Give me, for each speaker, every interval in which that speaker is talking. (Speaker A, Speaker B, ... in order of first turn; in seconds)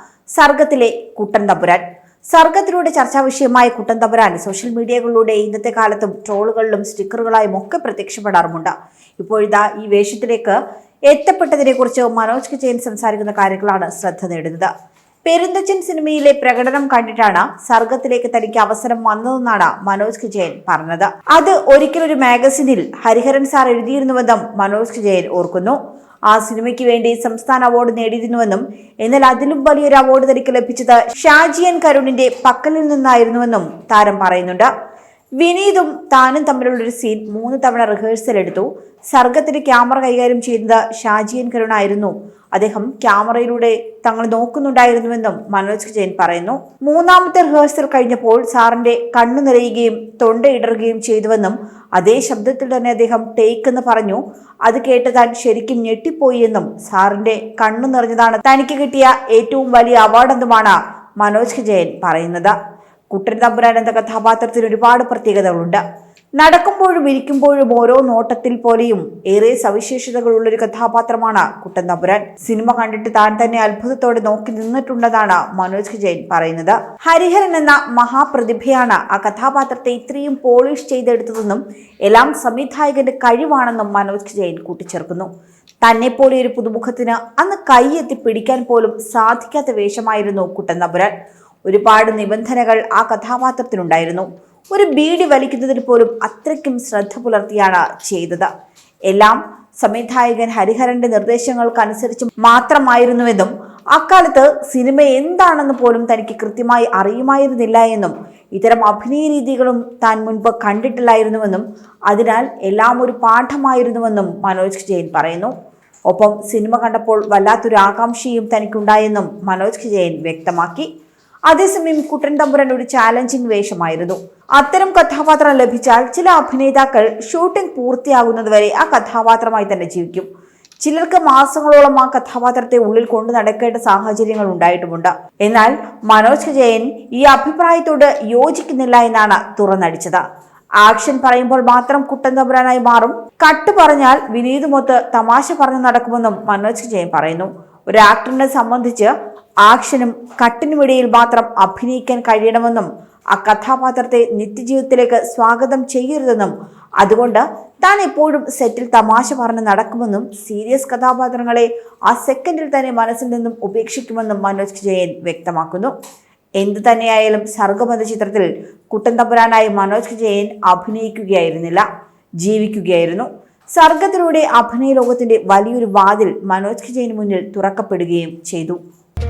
Speaker A: 0.4-14.7, 15.3-34.7, 35.4-62.5, 63.1-65.8, 66.4-85.3, 85.8-91.1, 91.7-98.5, 99.1-115.5, 116.1-120.9, 121.5-130.3, 130.8-140.2, 140.8-149.1, 149.7-165.9, 166.6-171.9, 172.4-178.8